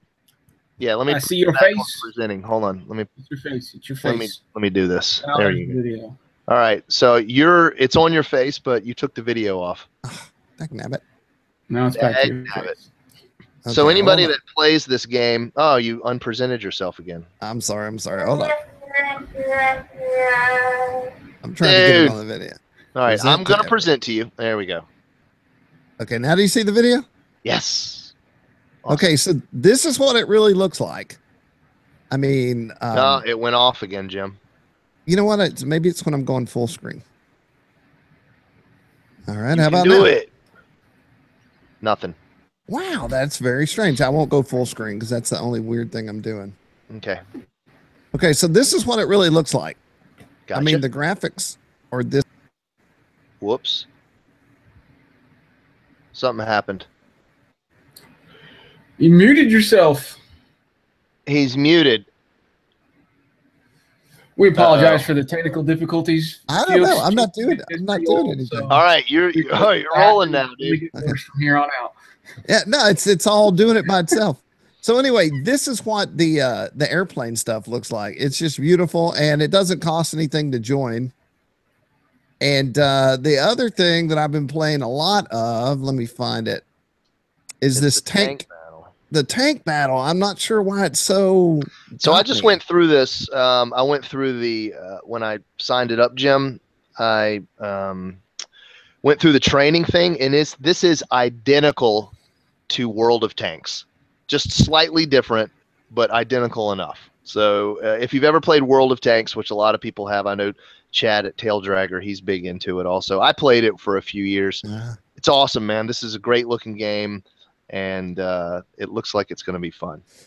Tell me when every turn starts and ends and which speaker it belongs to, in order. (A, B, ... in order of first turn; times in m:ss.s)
0:00.8-0:03.1 A
0:01.1-0:02.0 B
0:03.2-0:04.4 B
0:04.0-0:05.8 A
0:05.2-0:06.2 B
0:06.5-0:09.9 A
0:10.0-0:11.0 C
0:11.7-0:12.8 B
0:12.0-0:12.7 A
0:13.6-0:14.3 C
0:13.7-0:17.3 A
0:17.4-0:18.6 C
0:21.4-0:23.7 C
0:21.6-0:22.2 A
0:23.0-0:24.8 A
0:26.0-0:27.1 C
0:27.4-0:28.1 A
0:28.9-0:31.2 C
0:32.1-0:33.2 C
0:32.9-0:34.4 A
0:35.1-0:37.0 C
0:39.3-0:40.1 C
0:39.5-0:40.3 A
0:41.8-0:42.2 A
0:42.7-0:46.6 C
0:46.9-0:47.2 A
0:48.1-0:49.8 C
0:50.5-0:50.8 A
0:50.5-0:52.2 C
0:53.4-0:53.9 A
0:56.1-0:56.9 A
0:59.0-1:00.2 B
1:01.3-1:02.1 A
1:04.4-1:08.8 B
1:04.6-1:05.0 A
1:06.5-1:08.7 C
1:08.7-1:10.8 A
1:09.3-1:11.9 B
1:12.5-1:21.1 C
1:22.4-1:26.6 C
1:27.6-1:28.4 C
1:27.8-1:28.9 A
1:29.1-1:32.6 C
1:32.0-1:38.2 A
1:39.0-1:42.1 A
1:42.7-1:54.6 A
1:54.6-1:55.0 C
1:55.2-2:00.0 A